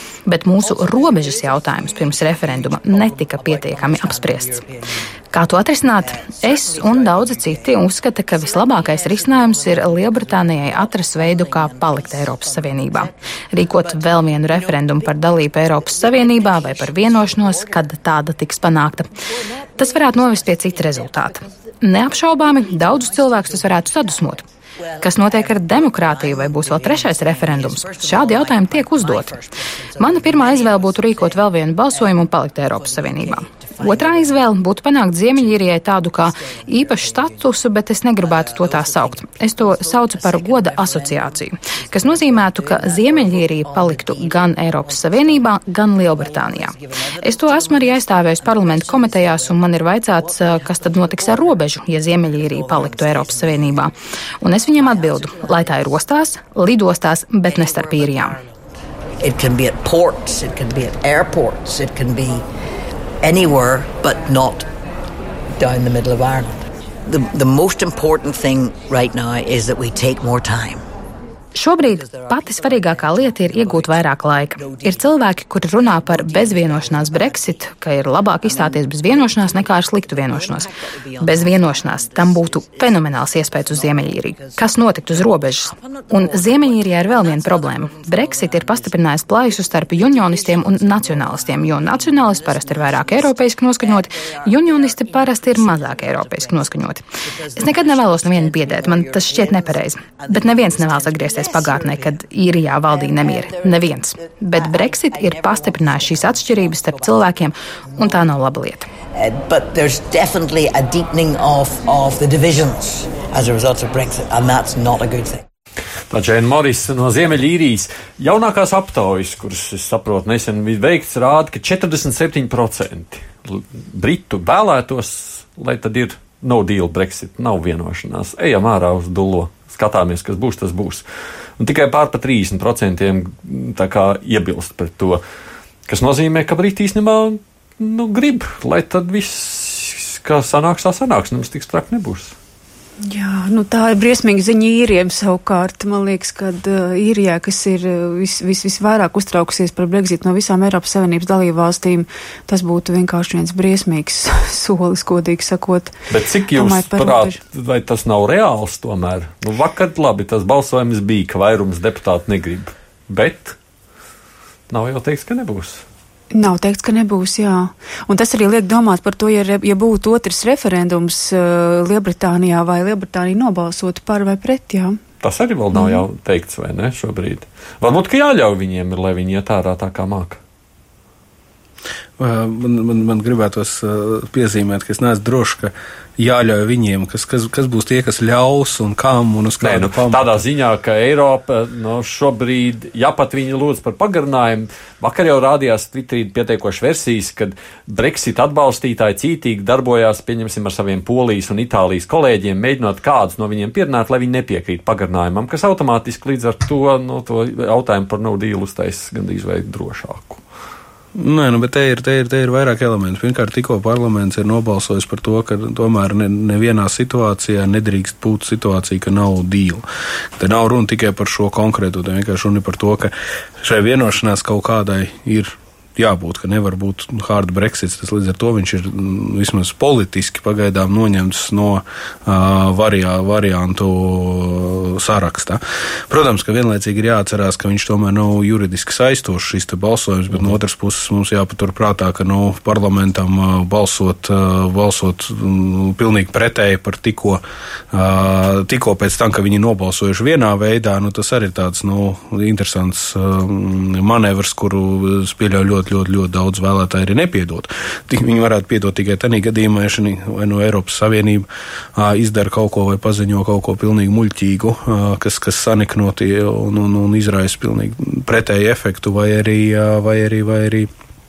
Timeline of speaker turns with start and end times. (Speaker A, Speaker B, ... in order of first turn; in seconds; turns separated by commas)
Speaker A: 0.2-4.6, Speaker B: 0.5-5.1, Speaker A: 5.3-19.1, Speaker B: 5.8-18.0, Speaker B: 19.1-37.6, Speaker A: 19.8-24.4, Speaker A: 25.0-29.3, Speaker A: 30.0-58.4, Speaker B: 38.2-45.5, Speaker B: 46.1-53.9, Speaker B: 54.5-56.0, Speaker B: 57.4-58.6, Speaker B: 59.2-62.4, Speaker B: 63.2-64.7, Speaker B: 65.5-70.8, Speaker A: 71.5-108.9, Speaker B: 71.8-77.7, Speaker B: 78.4-102.2, Speaker B: 102.8-108.3, Speaker B: 109.1-115.4, Speaker C: 116.1-131.0, Speaker C: 131.6-135.2, Speaker C: 135.9-142.3, Speaker D: 143.0-155.9, Speaker C: 156.1-163.6, Speaker D: 156.5-157.4, Speaker C: 164.7-165.8, Speaker D: 166.3-175.0, Speaker C: 175.2-180.4, Speaker D: 175.7-176.0, Speaker E: 182.2-190.3, Speaker C: 189.6-210.4, Speaker E: 211.2-219.8, Speaker E: 220.4-270.9